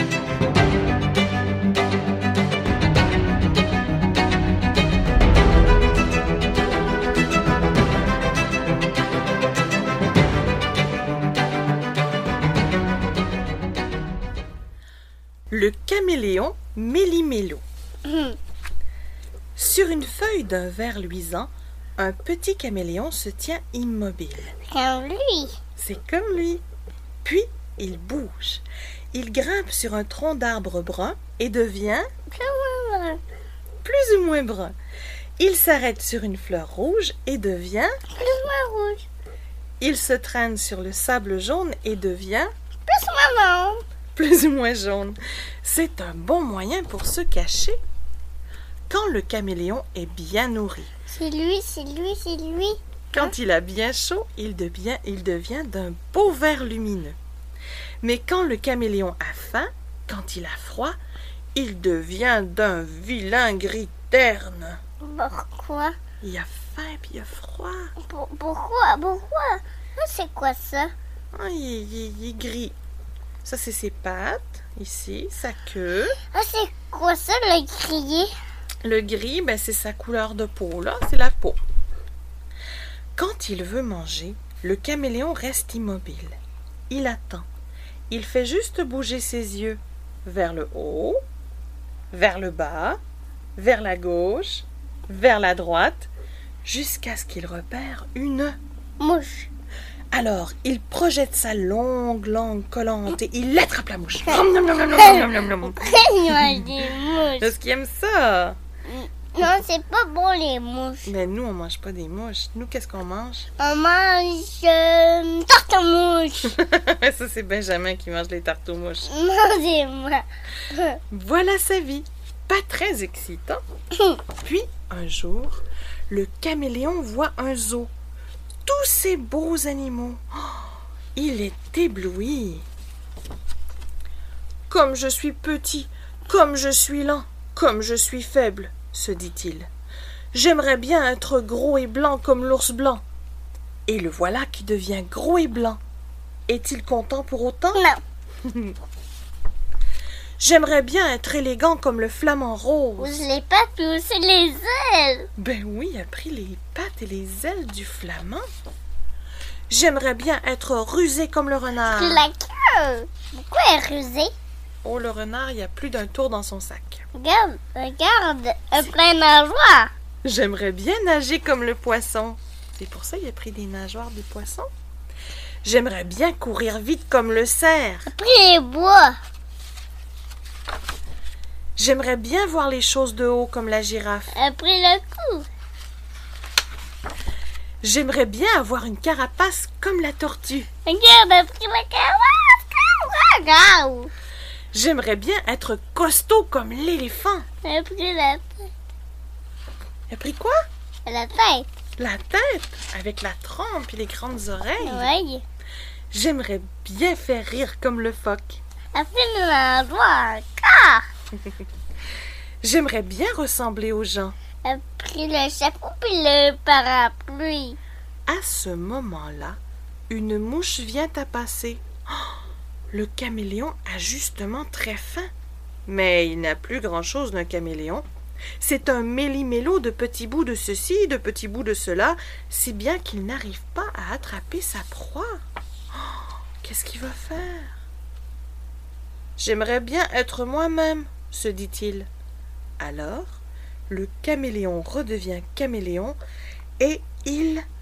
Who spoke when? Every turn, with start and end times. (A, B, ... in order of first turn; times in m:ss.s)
0:15.5-0:17.6 A
0:18.0-0:18.4 B
0:19.6-0:24.5 A
0:24.6-0:25.6 B
0:25.8-0:26.6 A
0:27.2-0:32.0 A
0:32.3-0:33.2 B
0:33.8-0:34.7 A
0:35.4-0:37.9 A
0:38.1-0:39.1 B
0:39.8-0:42.5 A
0:42.9-0:43.8 B
0:44.1-0:47.8 A
0:48.9-0:50.9 A
0:51.1-0:53.3 B
0:53.1-0:57.2 A
0:58.0-1:01.0 A
1:01.5-1:04.8 A
1:05.0-1:06.0 B
1:06.2-1:07.9 A
1:08.0-1:10.9 B
1:11.3-1:12.7 A
1:13.4-1:16.2 A
1:16.2-1:18.3 B
1:18.8-1:21.6 A
1:23.2-1:26.3 A
1:26.9-1:27.5 A
1:28.1-1:31.2 A
1:32.1-1:33.0 A
1:33.6-1:36.1 A
1:36.6-1:38.6 A
1:39.0-1:39.5 B
1:40.1-1:46.8 A
1:44.9-1:47.5 B
1:47.3-1:48.6 A
1:48.9-1:51.1 B
1:51.0-1:53.5 A
1:53.6-1:56.6 B
1:56.4-1:59.1 A
1:59.0-2:01.0 B
2:01.1-2:03.6 A
2:03.9-2:04.2 B
2:04.4-2:07.9 A
2:08.6-2:12.6 A
2:14.7-2:19.7 A
2:20.3-2:23.0 A
2:23.9-2:25.8 A
2:26.5-2:27.8 A
2:27.7-2:28.0 B
2:28.4-2:28.7 A
2:30.4-2:33.1 A
2:33.0-2:35.3 B
2:35.4-2:38.4 A
2:39.7-2:42.3 A
2:41.8-2:44.3 B
2:44.8-2:47.0 A
2:47.1-2:49.9 B
2:50.2-2:54.7 A
2:55.6-2:58.1 A
2:58.0-2:59.2 B
3:01.8-3:04.3 A
3:04.3-3:05.5 B
3:07.8-3:10.7 A
3:10.8-3:14.1 B
3:14.7-3:17.4 A
3:17.6-3:18.7 B
3:20.1-3:20.6 A
3:21.0-3:21.7 B
3:22.0-3:25.1 A
3:24.8-3:25.4 B
3:26.1-3:28.6 A
3:28.9-3:31.0 B
3:32.6-3:34.4 A
3:34.6-3:37.8 B
3:38.3-3:39.6 A
3:40.1-3:42.4 A
3:42.9-3:45.3 A
3:45.8-3:48.0 A
3:48.6-3:55.3 A
3:56.0-3:57.8 A
3:59.4-4:02.1 A
4:02.8-4:06.2 A
4:06.8-4:07.6 A